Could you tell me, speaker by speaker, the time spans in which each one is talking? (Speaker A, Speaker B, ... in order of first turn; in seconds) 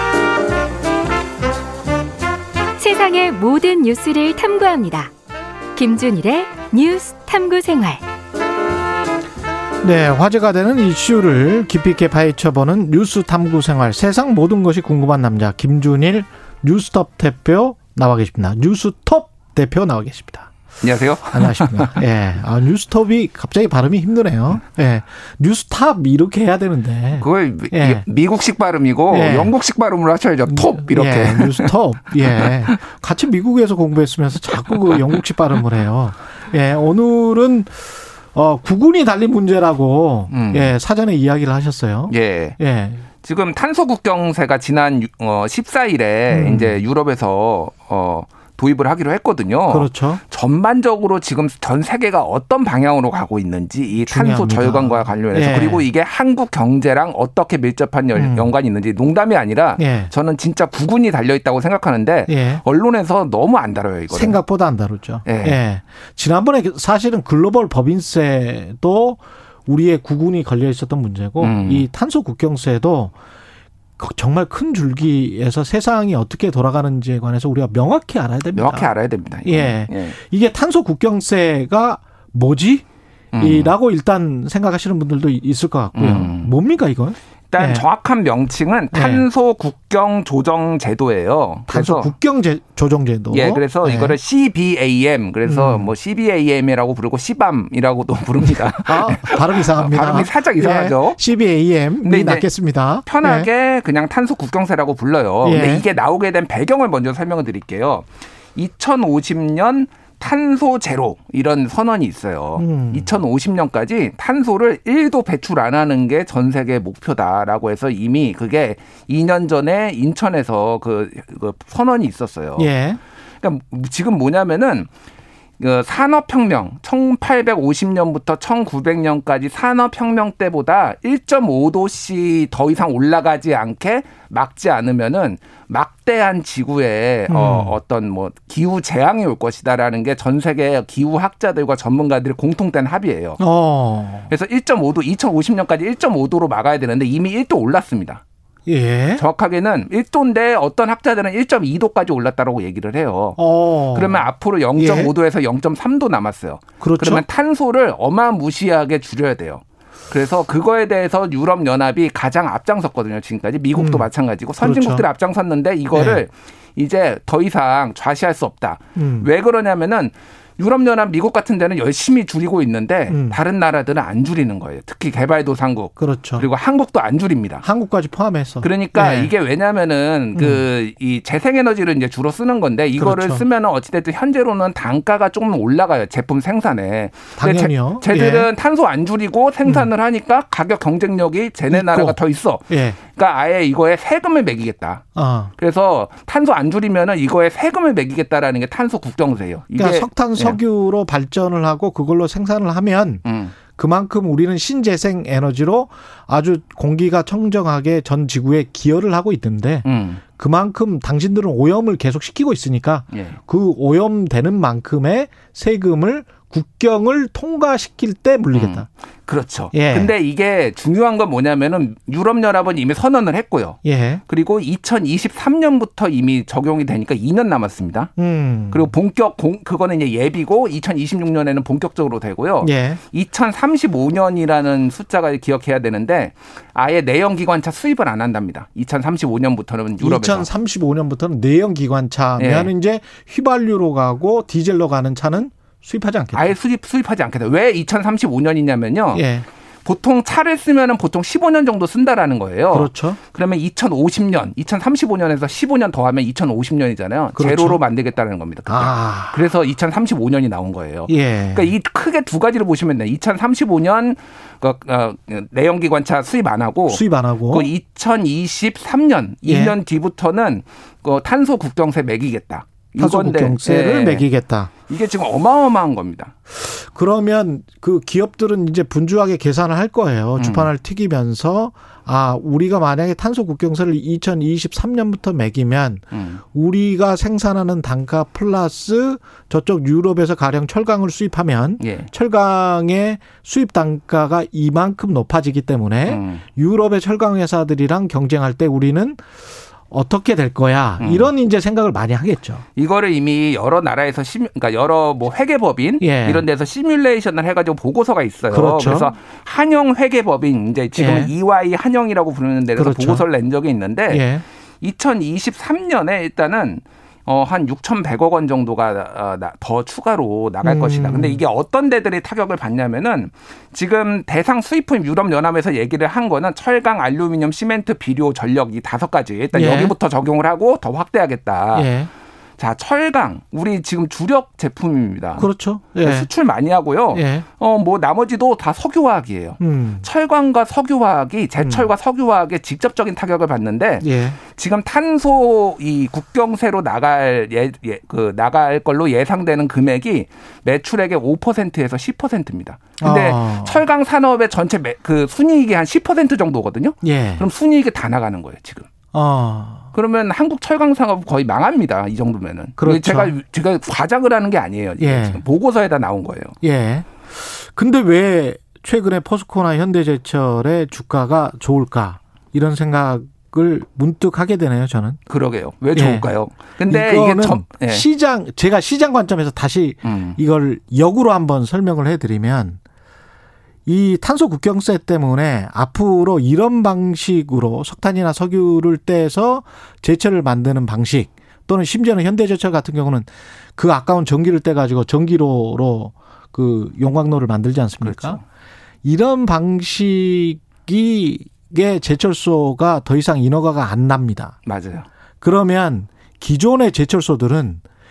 Speaker A: 2.8-5.1, 5.8-8.0
Speaker B: 9.8-20.5, 21.3-28.0, 29.1-29.5, 30.5-43.0, 46.3-46.8, 49.7-50.2, 54.1-55.9, 58.1-58.5, 59.8-60.1, 62.3-62.6, 64.1-73.1, 74.0-78.9, 79.4-82.8, 83.4-87.8, 88.9-89.3, 91.7-94.2, 95.4-95.9, 98.8-103.5, 105.4-105.8, 112.6-113.2, 122.6-123.0, 137.3-137.8, 143.4-144.3, 148.7-149.2, 153.4-155.1, 156.8-157.2, 163.7-164.1, 164.6-165.0, 165.9-166.2, 168.9-169.3, 173.1-173.4, 176.0-176.5, 177.6-179.3, 180.3-180.7, 183.0-183.4, 187.4-188.5, 189.6-189.9, 191.7-192.2, 192.7-193.0, 195.1-195.5, 199.7-209.8, 210.4-218.9, 219.7-220.1, 223.8-224.2, 228.2-228.9, 232.6-233.0, 240.0-246.5, 249.1-249.4, 252.7-253.2, 257.4-257.8, 258.7-259.4, 261.1-261.7, 266.9-267.7, 269.4-269.7, 273.0-274.7, 276.5-299.2, 299.9-302.6, 306.0-306.4, 308.5-309.1, 310.9-311.3, 312.8-313.2, 314.1-314.4, 320.6-321.4, 329.5-329.9, 331.7-332.1, 335.4-336.3, 337.1-337.4, 339.6-340.1, 341.6-341.9, 344.0-344.4, 353.0-353.8, 357.0-357.5, 359.1-359.9, 362.8-363.3, 365.0-365.4, 366.6-375.2, 375.9-376.3, 376.9-382.8, 383.9-398.4, 399.0-404.6, 405.4-407.8
Speaker C: 20.8-22.0, 27.1-32.8, 34.7-35.2, 40.3-40.8, 42.1-42.6, 43.2-64.4, 65.2-65.6, 71.4-71.8, 78.5-80.2, 83.3-83.7, 85.9-86.5, 87.5-92.1, 93.3-101.2, 102.0-102.5, 103.0-122.7, 123.4-124.9, 125.6-143.4, 144.3-148.2, 149.2-153.4, 153.9-177.7, 178.6-195.0, 195.6-200.6, 203.2-203.5, 209.8-210.2, 213.1-213.4, 218.5-228.1, 228.7-240.5, 242.4-242.7, 246.3-249.2, 249.8-274.2, 274.9-276.3, 280.4-280.7, 286.1-286.4, 291.8-292.1, 296.1-296.4, 301.0-301.3, 302.7-314.3, 314.8-331.9, 332.6-335.5, 336.0-358.9, 359.9-366.5, 375.3-378.1, 380.0-380.4, 398.0-398.4, 404.6-405.1